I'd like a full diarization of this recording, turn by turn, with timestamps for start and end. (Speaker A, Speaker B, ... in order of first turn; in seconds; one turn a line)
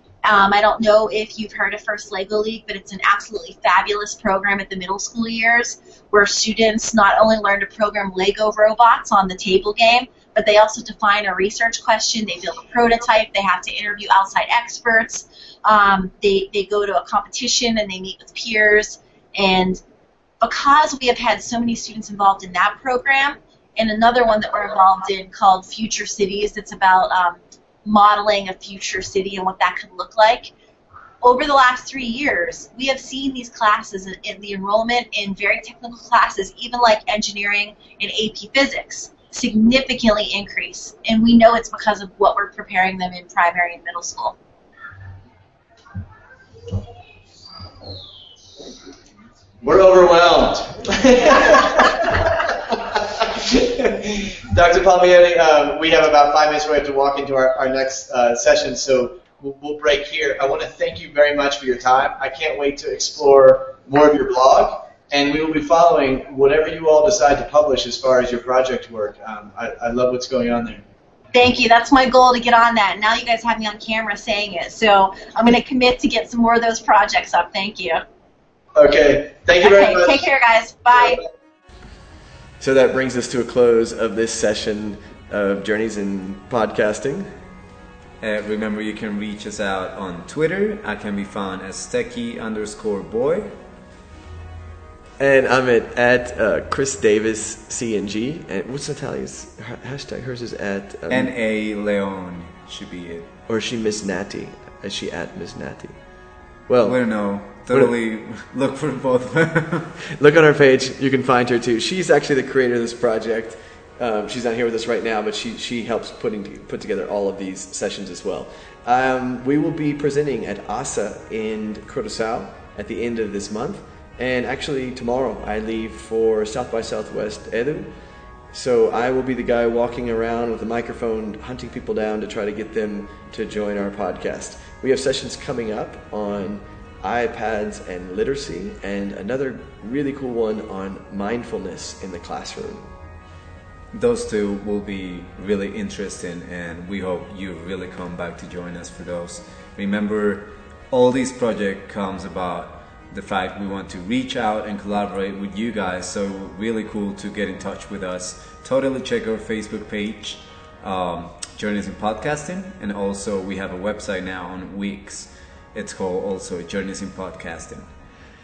Speaker A: 0.2-19.8
Speaker A: 20.4-30.5
Speaker A: 31.2-44.4
Speaker B: 49.6-52.5
Speaker B: 53.2-70.8
Speaker A: 71.3-78.0
Speaker B: 78.7-80.3
Speaker A: 79.5-81.2
Speaker C: 82.6-87.3
Speaker D: 88.2-93.5
Speaker C: 95.2-101.3
Speaker D: 101.1-103.3
Speaker C: 103.5-106.0
Speaker C: 106.7-108.0
Speaker D: 106.8-110.0
Speaker C: 110.2-128.0
Speaker C: 128.5-142.9
Speaker D: 143.9-167.9